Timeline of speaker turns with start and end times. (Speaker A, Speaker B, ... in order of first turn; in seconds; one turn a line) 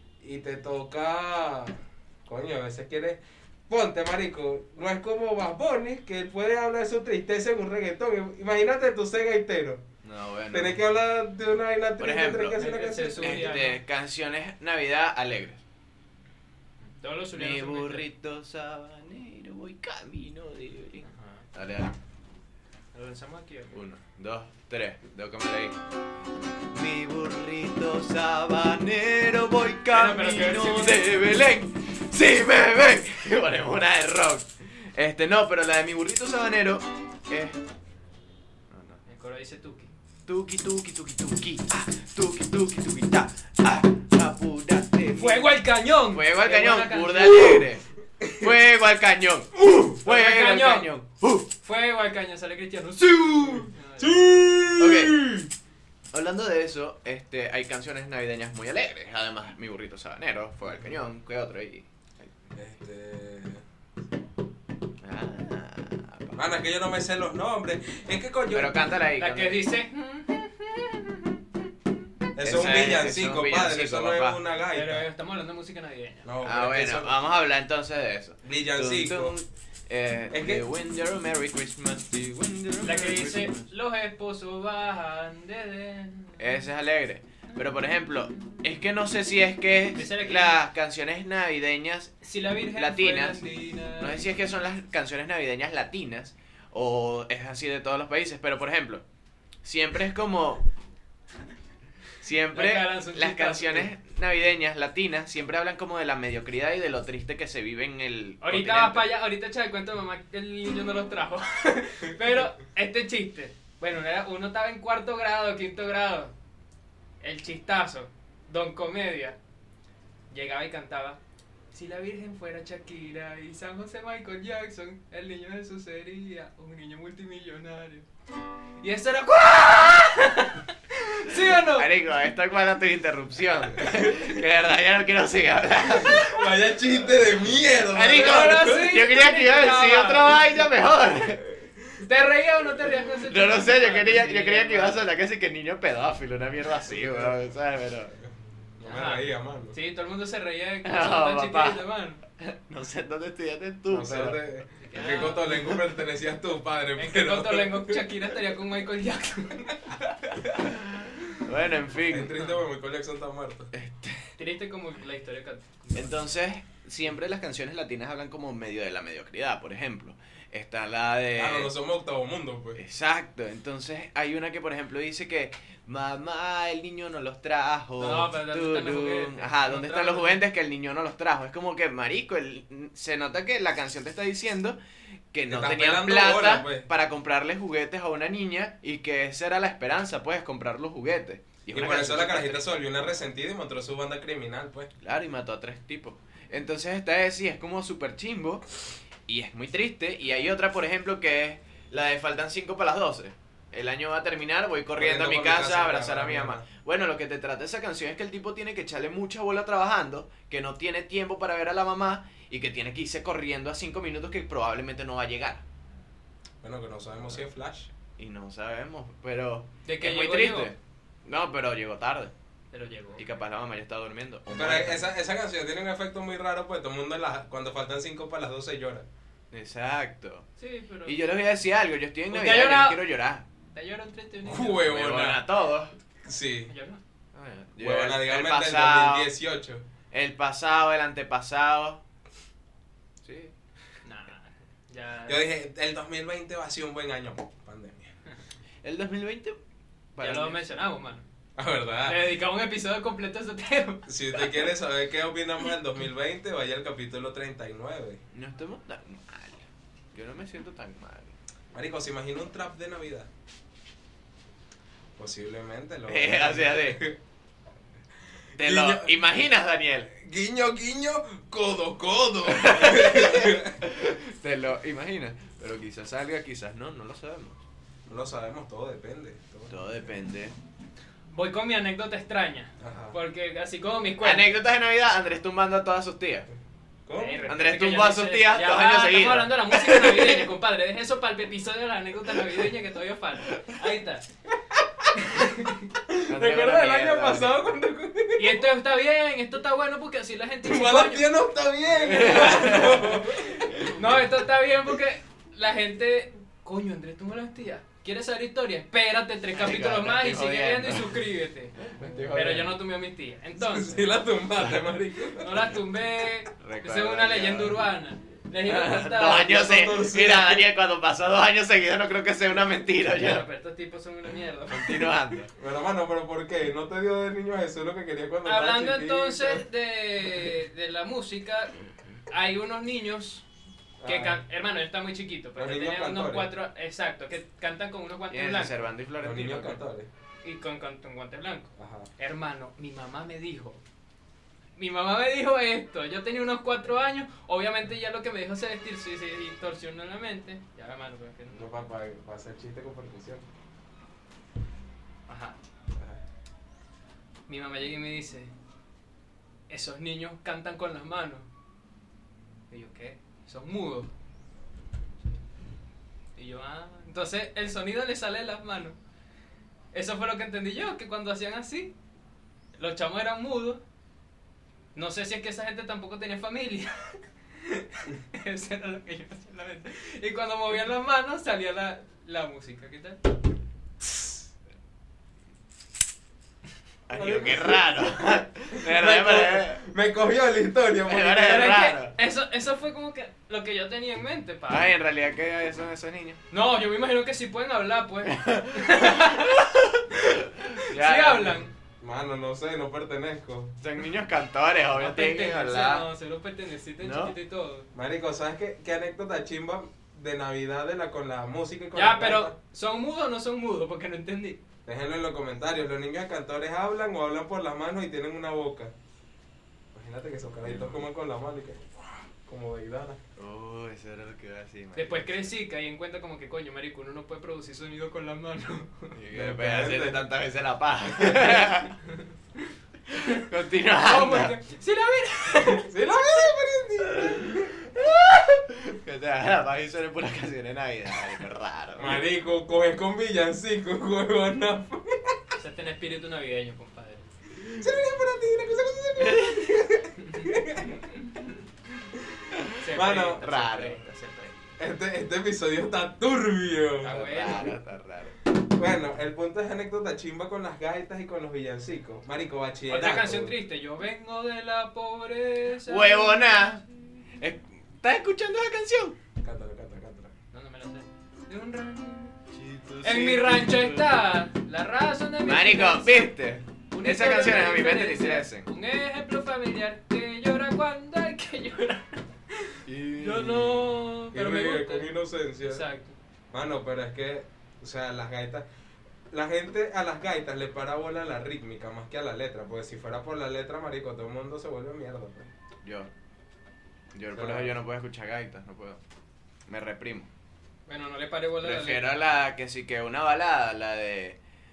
Speaker A: 0.2-9.8
Speaker B: 10.0-10.8
Speaker A: 10.5-13.6
Speaker B: 12.0-12.6
Speaker C: 12.6-13.8
Speaker B: 13.2-15.6
Speaker C: 16.9-18.1
Speaker B: 17.4-21.9
Speaker C: 21.0-21.5
Speaker C: 22.9-23.8
Speaker B: 23.7-25.8
Speaker B: 26.7-37.6
Speaker C: 29.9-31.0
Speaker B: 38.7-39.0
Speaker C: 39.0-39.9
Speaker B: 40.2-45.6
Speaker C: 45.1-47.6
Speaker B: 46.1-47.8
Speaker A: 48.2-48.5
Speaker B: 48.4-51.5
Speaker C: 50.0-50.9
Speaker C: 51.6-54.3
Speaker A: 53.4-55.5
Speaker B: 54.8-55.2
Speaker B: 56.1-62.3
Speaker A: 62.5-63.6
Speaker B: 65.0-66.4
Speaker A: 66.3-68.8
Speaker B: 68.5-69.7
Speaker C: 69.2-71.4
Speaker A: 72.3-75.0
Speaker B: 72.4-74.4
Speaker C: 74.7-76.3
Speaker A: 76.2-77.1
Speaker B: 76.4-83.7
Speaker A: 78.4-79.3
Speaker A: 80.3-80.6
Speaker C: 82.8-86.6
Speaker B: 86.4-93.4
Speaker C: 89.9-90.6
Speaker C: 92.2-94.2
Speaker B: 94.0-99.0
Speaker B: 99.6-100.6
Speaker B: 102.2-109.1
Speaker C: 102.5-103.9
Speaker C: 108.4-116.3
Speaker C: 117.2-119.4
Speaker C: 120.3-121.2
Speaker C: 121.7-128.1
Speaker C: 128.8-131.9
Speaker B: 131.7-136.4
Speaker A: 136.1-138.9
Speaker B: 137.8-141.4
Speaker C: 138.1-140.4
Speaker C: 142.0-145.0
Speaker B: 143.3-148.2
Speaker A: 146.9-147.3
Speaker A: 148.8-149.8
Speaker C: 148.8-152.2
Speaker B: 150.8-151.9
Speaker B: 152.4-154.4
Speaker A: 153.9-158.0
Speaker C: 154.8-155.7
Speaker B: 155.4-155.8
Speaker C: 156.9-160.8
Speaker B: 161.4-162.3
Speaker A: 162.0-163.7
Speaker C: 162.3-162.6
Speaker B: 163.7-164.3
Speaker C: 164.4-166.2
Speaker B: 165.9-171.7
Speaker A: 171.3-172.8
Speaker B: 172.8-184.8
Speaker C: 178.0-180.4
Speaker B: 185.3-192.6
Speaker A: 185.5-186.9
Speaker A: 191.7-194.9
Speaker B: 195.0-198.7
Speaker B: 199.3-215.6
Speaker A: 204.9-206.6
Speaker A: 216.6-217.9
Speaker B: 218.2-222.3
Speaker C: 219.8-220.7
Speaker C: 222.7-223.2
Speaker B: 223.2-225.1
Speaker A: 224.5-229.1
Speaker B: 229.5-230.5
Speaker C: 230.6-231.2
Speaker B: 231.0-233.4
Speaker C: 232.3-233.0
Speaker C: 233.7-234.9
Speaker A: 234.4-235.4
Speaker B: 234.8-235.9
Speaker A: 236.2-236.7
Speaker C: 236.7-237.0
Speaker B: 237.3-239.3
Speaker A: 237.8-239.8
Speaker B: 240.1-242.0
Speaker B: 243.2-243.5
Speaker C: 244.0-245.4
Speaker A: 245.3-248.1
Speaker B: 248.8-249.6
Speaker B: 250.1-250.6
Speaker C: 250.2-251.2
Speaker A: 251.6-252.2
Speaker C: 252.0-254.6
Speaker A: 254.1-258.2
Speaker B: 258.3-261.3
Speaker A: 261.7-263.3
Speaker A: 265.2-267.2
Speaker B: 266.1-267.0
Speaker B: 268.6-270.1
Speaker A: 268.6-269.1
Speaker A: 270.1-273.7
Speaker B: 272.4-277.6
Speaker A: 278.1-279.8
Speaker B: 279.7-280.6
Speaker C: 281.3-284.5
Speaker A: 282.8-283.1
Speaker B: 284.2-286.5
Speaker A: 287.1-287.4
Speaker C: 287.1-294.2
Speaker B: 287.4-290.5
Speaker C: 295.1-295.8
Speaker A: 296.1-298.7
Speaker B: 296.3-297.6
Speaker C: 298.4-301.3
Speaker A: 300.6-303.9
Speaker B: 301.9-303.2
Speaker C: 302.2-303.1
Speaker C: 303.9-311.8
Speaker B: 309.5-311.2
Speaker B: 311.8-312.8
Speaker A: 312.0-312.3
Speaker C: 312.3-314.1
Speaker A: 313.6-315.6
Speaker C: 315.4-319.5
Speaker B: 316.6-317.8
Speaker B: 318.6-323.4
Speaker A: 319.2-320.6
Speaker C: 323.1-325.1
Speaker B: 324.7-325.5
Speaker A: 325.6-329.6
Speaker C: 328.4-331.7
Speaker C: 332.3-333.4
Speaker A: 334.0-334.4
Speaker C: 334.0-338.8
Speaker A: 335.6-336.5
Speaker B: 338.3-339.8
Speaker A: 339.2-340.1
Speaker C: 340.4-343.8
Speaker A: 341.8-342.1
Speaker C: 344.8-351.8
Speaker A: 351.5-353.4
Speaker C: 355.3-355.6
Speaker A: 355.9-356.2
Speaker C: 357.5-358.5
Speaker C: 359.7-361.5
Speaker C: 362.7-364.1
Speaker C: 366.4-369.0
Speaker C: 369.9-371.9
Speaker C: 372.8-373.8
Speaker C: 374.9-383.2
Speaker B: 387.1-389.8
Speaker A: 387.1-387.9
Speaker A: 388.7-391.9
Speaker B: 391.0-392.1
Speaker C: 391.4-394.9
Speaker B: 394.7-396.4
Speaker C: 396.5-399.6
Speaker B: 398.4-401.7
Speaker C: 400.8-401.7
Speaker A: 402.0-403.8
Speaker B: 403.8-406.1
Speaker C: 404.9-407.9
Speaker B: 407.0-407.4
Speaker A: 407.9-412.5
Speaker C: 411.9-414.6
Speaker A: 414.9-418.9
Speaker A: 419.9-423.2
Speaker B: 420.6-421.1
Speaker B: 423.4-425.4
Speaker C: 424.9-429.2
Speaker B: 429.1-431.9
Speaker A: 429.3-430.3
Speaker A: 431.2-431.5
Speaker B: 433.1-434.6
Speaker C: 434.0-435.9
Speaker A: 435.6-437.7
Speaker B: 437.1-442.2
Speaker A: 442.0-445.5
Speaker C: 445.6-447.3
Speaker A: 447.7-451.0
Speaker B: 449.2-449.7
Speaker C: 450.2-450.5
Speaker C: 452.8-454.5
Speaker A: 452.9-453.4
Speaker B: 453.4-454.0
Speaker A: 454.8-457.1
Speaker C: 457.0-457.7
Speaker B: 457.1-458.4
Speaker A: 458.7-463.5
Speaker C: 462.9-466.8
Speaker B: 465.9-466.8
Speaker B: 467.4-469.1
Speaker A: 469.4-470.3
Speaker C: 470.5-472.3
Speaker B: 472.5-474.1
Speaker C: 473.0-476.3
Speaker B: 475.4-478.7
Speaker C: 476.9-485.1
Speaker B: 482.9-483.9
Speaker A: 484.3-485.9
Speaker C: 485.6-486.1
Speaker A: 486.5-488.6
Speaker A: 489.3-495.5
Speaker B: 495.8-496.1
Speaker B: 497.1-499.0
Speaker A: 497.3-497.8
Speaker B: 499.7-500.3
Speaker C: 500.9-502.1
Speaker B: 501.6-504.4